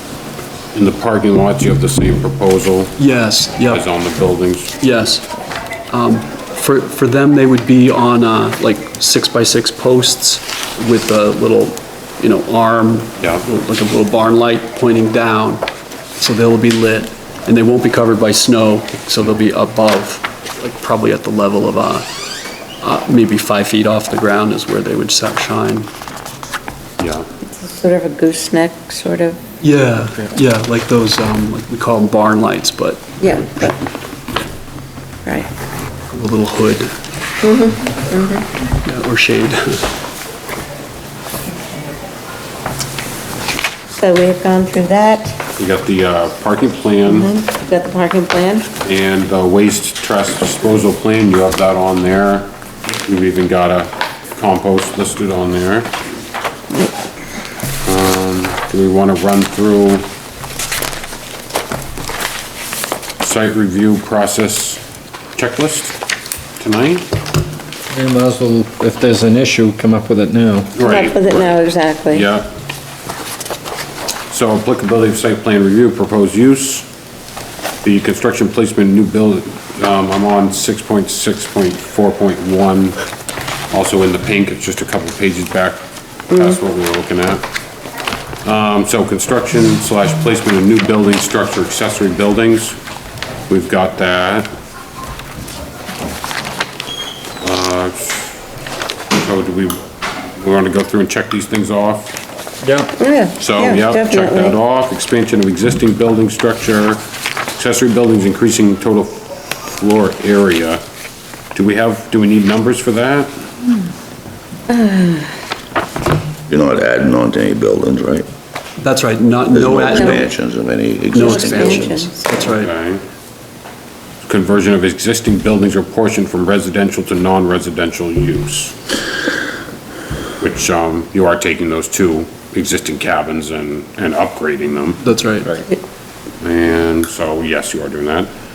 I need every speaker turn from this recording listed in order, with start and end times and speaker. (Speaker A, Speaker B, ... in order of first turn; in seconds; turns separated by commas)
Speaker A: 0.7-2.9, Speaker B: 3.0-3.8, Speaker A: 3.7-4.8, Speaker B: 4.8-5.3, Speaker B: 5.9-15.6, Speaker B: 16.2-22.1, Speaker B: 22.8-25.9, Speaker A: 27.0-27.2, Speaker C: 27.5-29.4, Speaker B: 29.6-33.8, Speaker C: 33.2-33.7, Speaker B: 36.1-36.9, Speaker C: 37.4-38.5, Speaker B: 38.8-39.9, Speaker C: 43.9-45.4, Speaker A: 45.6-47.3, Speaker C: 47.0-48.7, Speaker A: 48.8-55.9, Speaker A: 57.8-60.0, Speaker A: 63.2-64.8, Speaker A: 65.3-66.0, Speaker A: 66.6-67.0, Speaker D: 67.9-70.7, Speaker A: 70.7-72.5, Speaker C: 70.8-72.2, Speaker A: 74.3-76.8, Speaker A: 77.8-83.0, Speaker A: 83.7-87.4, Speaker A: 88.4-92.8, Speaker A: 93.5-94.5, Speaker A: 97.4-98.3, Speaker A: 99.2-99.8, Speaker A: 100.4-102.1, Speaker C: 103.0-104.5, Speaker A: 103.4-107.0, Speaker A: 107.5-110.8, Speaker A: 111.5-113.3, Speaker C: 114.7-115.3, Speaker E: 116.5-118.3, Speaker B: 118.8-120.3, Speaker E: 119.5-122.0, Speaker C: 120.0-120.2, Speaker C: 121.1-122.2, Speaker B: 121.1-122.7, Speaker A: 122.3-123.0, Speaker A: 124.2-128.7, Speaker A: 130.4-135.0, Speaker B: 135.0-135.6, Speaker A: 136.4-138.3